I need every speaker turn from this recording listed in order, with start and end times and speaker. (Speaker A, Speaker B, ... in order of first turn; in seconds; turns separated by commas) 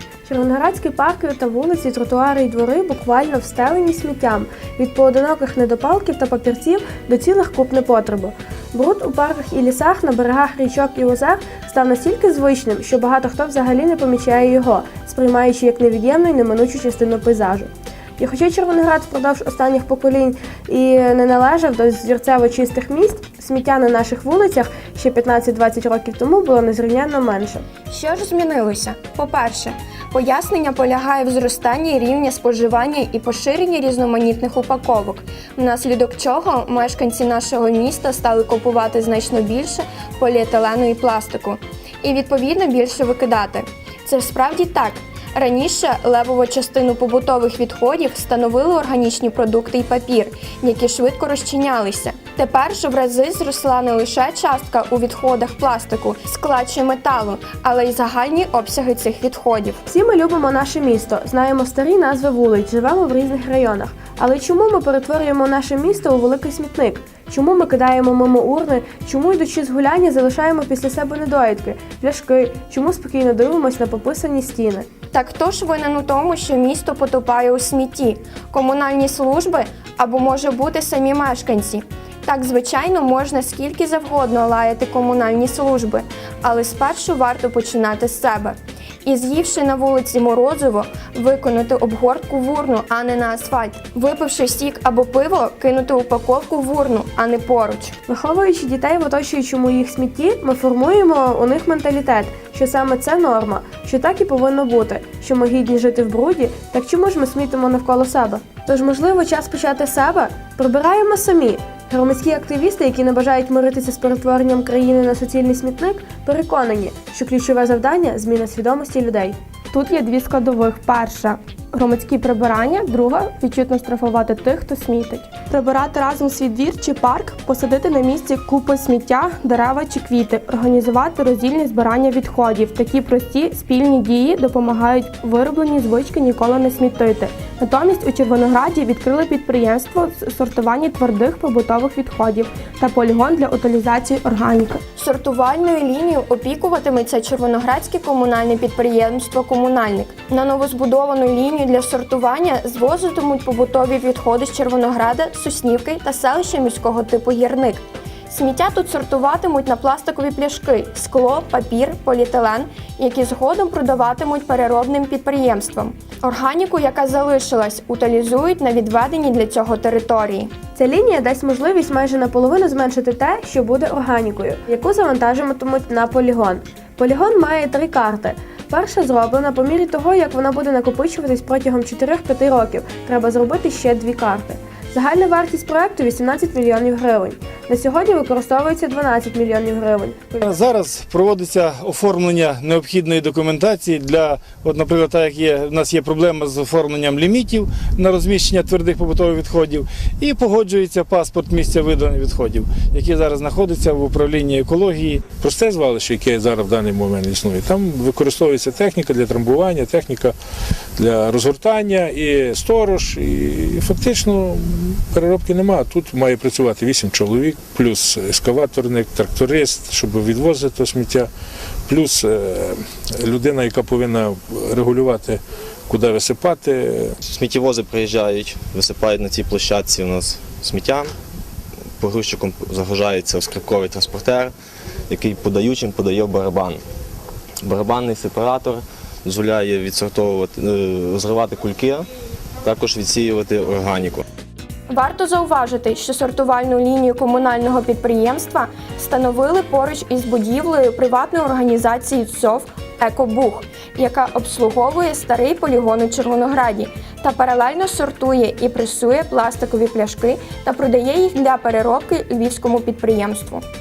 Speaker A: 0.2-27.6, Speaker B: 27.9-59.8, Speaker A: 59.9-74.9, Speaker B: 75.1-97.9, Speaker A: 98.1-119.4, Speaker C: 119.7-144.8, Speaker B: 144.9-170.5, Speaker A: 170.8-190.4, Speaker D: 190.4-205.2, Speaker E: 205.4-210.3, Speaker E: 211.0-221.3, Speaker E: 221.9-227.1, Speaker F: 227.2-231.1, Speaker F: 232.0-234.5, Speaker F: 235.1-236.8, Speaker F: 237.6-242.1, Speaker F: 242.6-244.2, Speaker B: 244.9-263.6